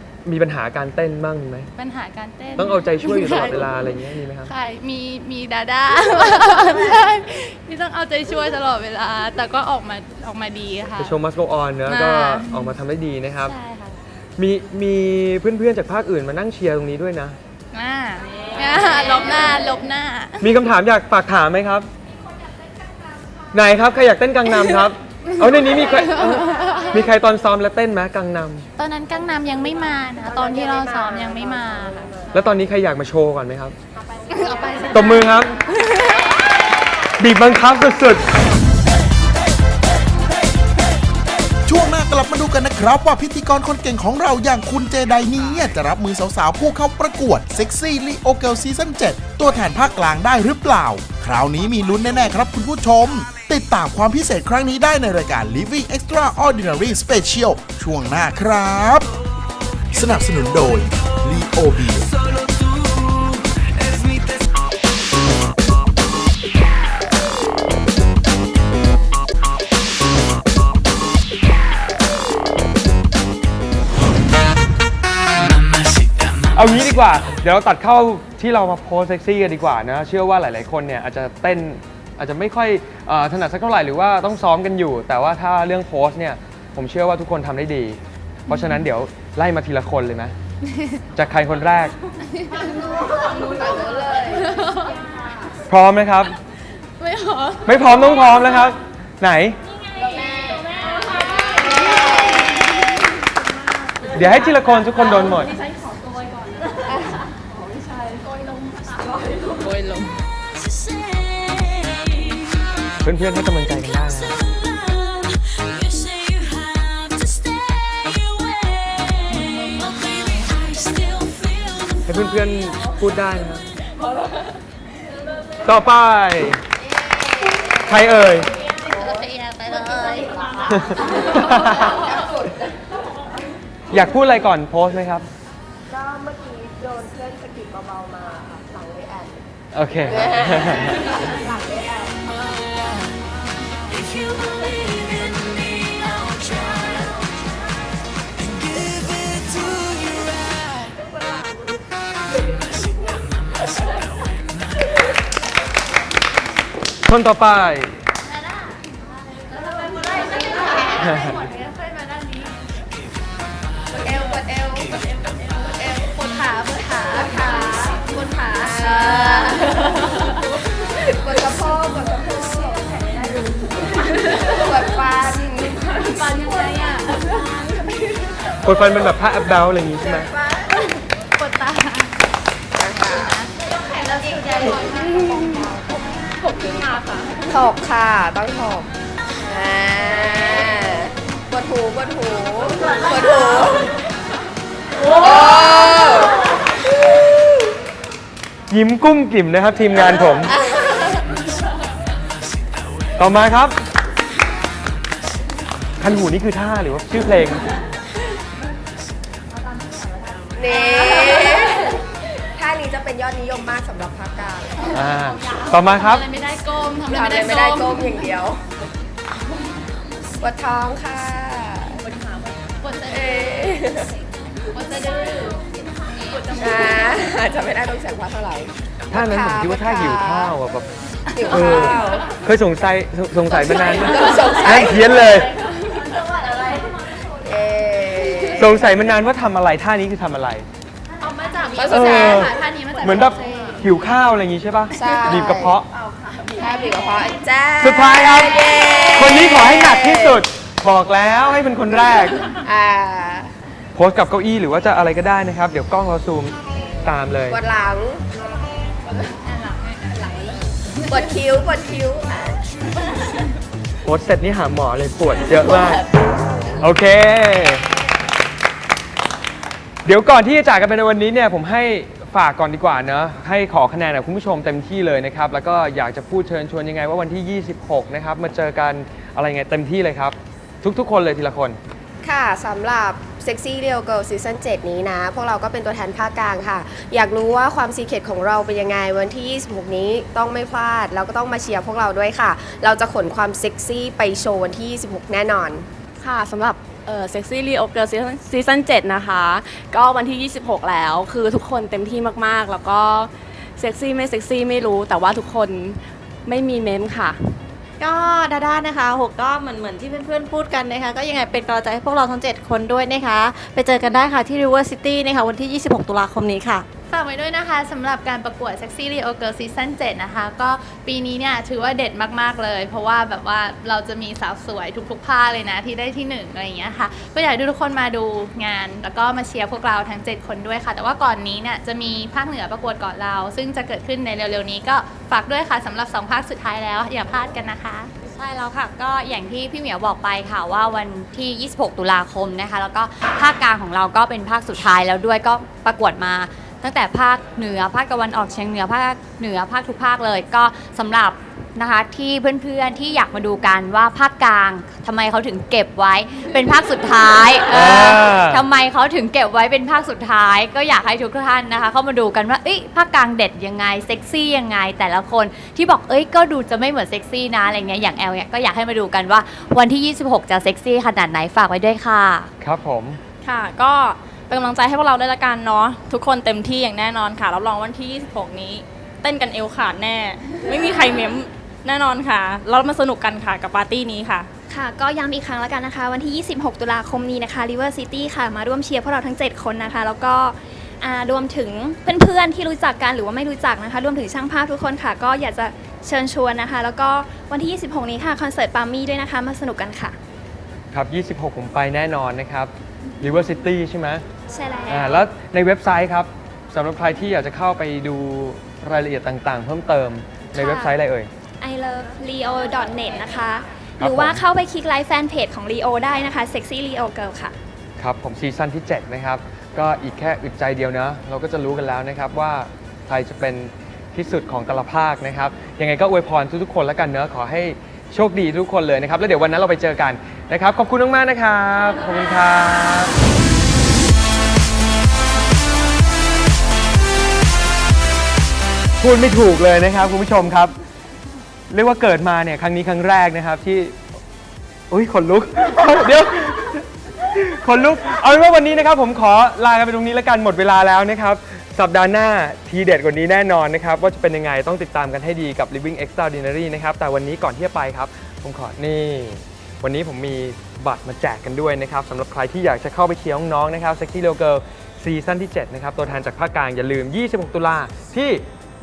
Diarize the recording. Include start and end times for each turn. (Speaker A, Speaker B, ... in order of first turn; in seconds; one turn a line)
Speaker A: 0.2-1.7
Speaker B: 1.8-3.7
Speaker A: 2.6-4.5
Speaker B: 4.5-11.1
Speaker A: 11.0-13.5
Speaker B: 11.9-12.7
Speaker B: 13.4-14.0
Speaker A: 14.4-17.4
Speaker B: 17.7-20.5
Speaker A: 20.4-21.9
Speaker A: 23.5-28.6
Speaker B: 25.4-27.0
Speaker B: 28.8-32.1
Speaker C: 30.2-32.3
Speaker A: 32.3-33.7
Speaker C: 34.1-34.9
Speaker B: 34.3-35.9
Speaker A: 34.9-35.6
Speaker A: 37.2-38.2
Speaker D: 41.6-59.1
Speaker D: 59.9-62.1
Speaker A: 76.5-90.3
Speaker B: 88.5-88.8
Speaker B: 90.7-91.0
Speaker A: 91.1-91.9
Speaker B: 92.3-92.6
Speaker C: 93.2-94.5
Speaker B: 94.4-94.9
Speaker A: 95.7-96.3
Speaker B: 97.0-98.2
Speaker A: 97.6-99.6
Speaker A: 104.1-105.5
Speaker A: 113.0-114.5
Speaker A: 122.0-123.7
Speaker A: 125.6-126.6
Speaker A: 127.8-128.5
Speaker C: 128.8-132.6
Speaker A: 130.7-132.0
Speaker A: 133.9-135.3
Speaker C: 135.9-139.4
Speaker A: 139.7-141.1
Speaker C: 140.0-141.6
Speaker A: 157.0-158.0
Speaker B: 159.5-162.5
Speaker A: 161.0-161.4
Speaker C: 163.9-166.2
Speaker B: 166.0-167.8
Speaker C: 167.2-170.0
Speaker B: 168.6-170.4
Speaker C: 170.8-173.3
Speaker B: 174.3-174.6
Speaker C: 174.4-176.8
Speaker B: 176.1-177.5
Speaker A: 178.6-180.3
Speaker C: 180.4-180.7
Speaker B: 181.3-182.1
Speaker C: 182.8-183.3
Speaker B: 183.1-187.3
Speaker C: 184.4-185.4
Speaker C: 187.5-188.9
Speaker C: 189.4-193.9
Speaker C: 195.0-196.4
Speaker A: 198.7-200.5
Speaker C: 200.6-201.0
Speaker A: 203.2-203.8
Speaker A: 206.0-207.7
Speaker C: 210.5-212.0
Speaker B: 210.7-211.7
Speaker C: 212.6-215.1
Speaker A: 214.9-216.2
Speaker B: 215.5-218.1
Speaker C: 217.1-218.6
Speaker C: 220.4-222.0
Speaker B: 222.1-223.8
Speaker C: 223.1-224.1
Speaker B: 224.7-227.2
Speaker C: 226.6-230.5
Speaker A: 229.1-230.9
Speaker C: 231.3-232.3
Speaker A: 231.5-235.5
Speaker C: 233.5-235.2
Speaker C: 237.4-238.9
Speaker A: 238.6-240.7
Speaker B: 241.2-243.8
Speaker C: 241.7-242.5
Speaker A: 241.9-245.8
Speaker C: 243.2-243.8
Speaker C: 244.9-245.8
Speaker C: 246.6-250.4
Speaker A: 247.8-252.4
Speaker C: 252.5-253.5
Speaker A: 253.9-257.6
Speaker C: 256.8-258.2
Speaker B: 259.1-261.2
Speaker C: 261.1-262.6
Speaker A: 264.0-266.0
Speaker A: 266.8-267.8
Speaker A: 270.0-281.8
Speaker C: 282.2-295.9
Speaker E: 296.2-307.5
Speaker F: 308.0-316.9
Speaker B: 317.1-338.1
Speaker G: 338.3-372.5
Speaker A: 357.7-358.6
Speaker A: 372.6-373.2
Speaker H: 373.4-384.5
Speaker I: 384.7-400.2
Speaker A: 400.9-404.2
Speaker I: 404.5-405.2
Speaker A: 404.9-411.3
Speaker I: 410.5-410.9
Speaker I: 411.6-417.5
Speaker A: 414.0-414.4
Speaker A: 418.0-433.1
Speaker A: 439.0-440.7
Speaker A: 441.7-443.9
Speaker A: 444.9-468.4